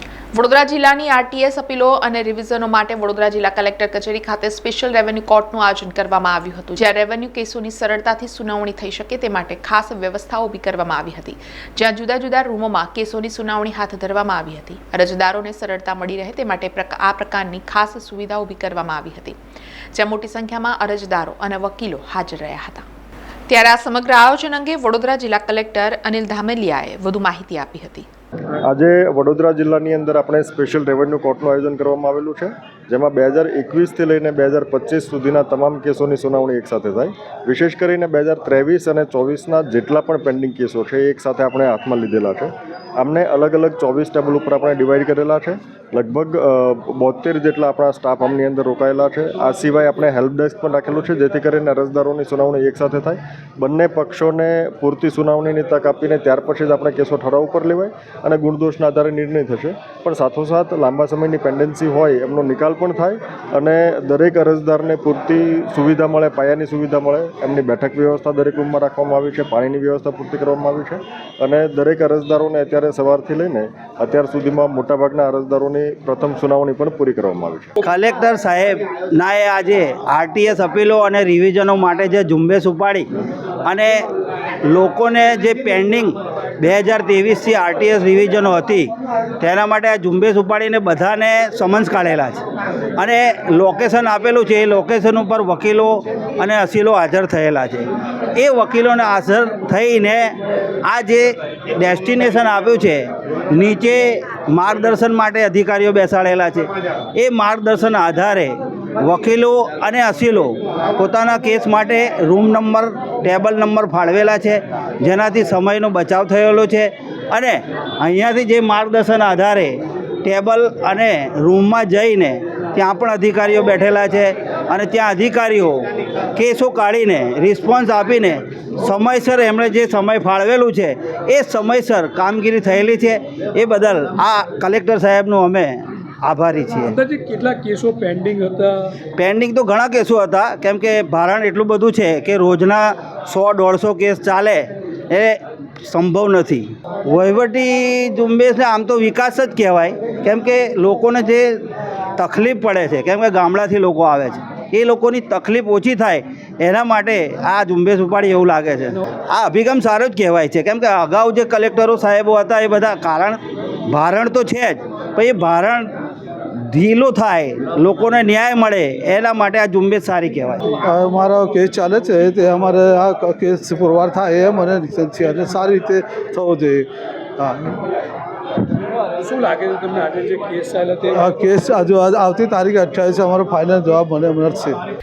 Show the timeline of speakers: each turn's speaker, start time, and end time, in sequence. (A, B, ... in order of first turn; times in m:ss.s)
0:00.3-0:19.4 A
0:19.9-0:22.9 A
0:23.5-0:28.1 A
0:28.6-1:17.7 B
1:17.8-1:23.1 C
1:23.6-1:24.0 C
1:24.6-1:32.4 C
1:33.0-2:05.8 C
2:06.4-2:17.0 C
2:16.9-2:18.9 D
2:19.2-2:31.6 C
2:32.2-2:45.9 C
2:46.7-2:50.6 C
2:50.7-2:56.9 E
2:57.4-2:57.8 E
2:59.2-3:01.2 D
3:01.2-3:04.8 E